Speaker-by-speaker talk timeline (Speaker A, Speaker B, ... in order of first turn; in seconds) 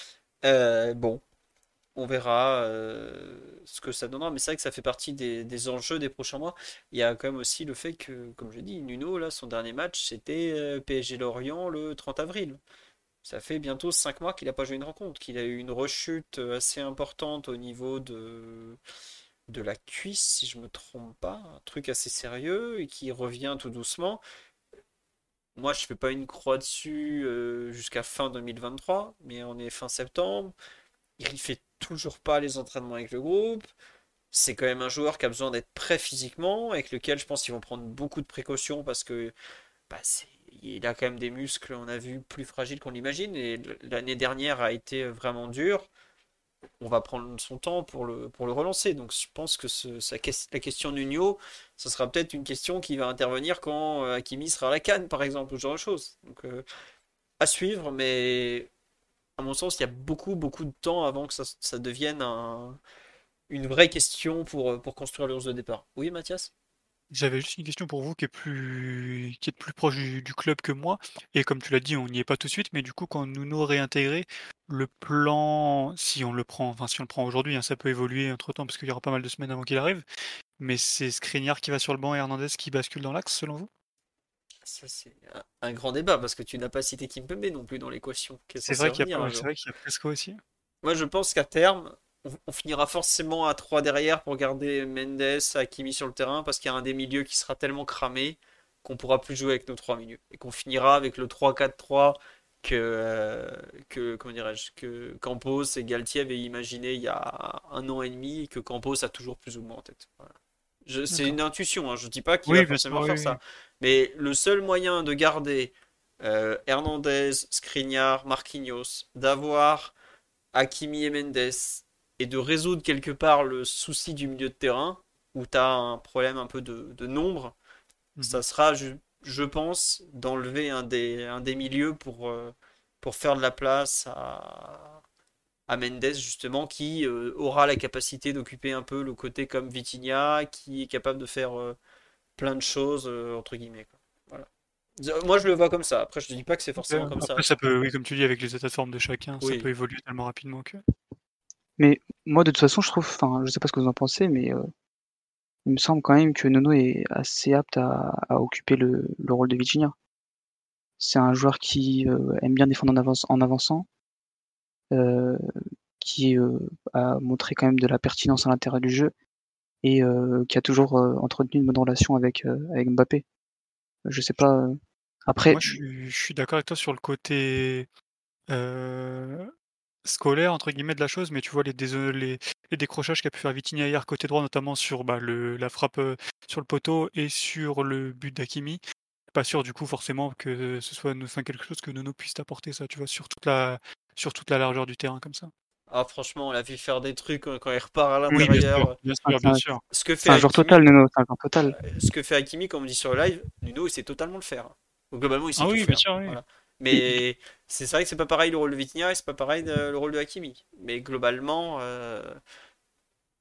Speaker A: 0.4-1.2, 1.9-12.6, 13.2-18.8, 19.5-24.2, 25.6-30.5, 31.2-33.7, 34.3-39.3, 39.9-45.9, 46.8-56.6, 57.4-58.7, 59.4-62.8, 63.5-66.5, 84.7-89.5, 90.8-110.3, 110.9-119.9, 120.5-127.5, 128.2-135.0, 135.7-141.8, 142.4-144.5, 145.0-147.5, 149.4-149.7, 195.9-199.0, 199.9-200.8, 201.7-212.4
Speaker B: 67.1-80.0, 80.6-83.7, 88.6-90.4, 111.1-111.4, 112.5-113.4, 146.8-150.8, 175.5-177.9, 178.5-179.5, 180.1-188.8, 189.3-195.5, 198.3-199.8, 205.6-206.4
Speaker C: 151.8-154.7, 155.7-159.9, 161.0-163.9, 164.9-165.4, 166.0-169.1, 169.8-173.2, 174.1-175.8, 198.3-198.6, 199.3-199.6, 200.2-201.8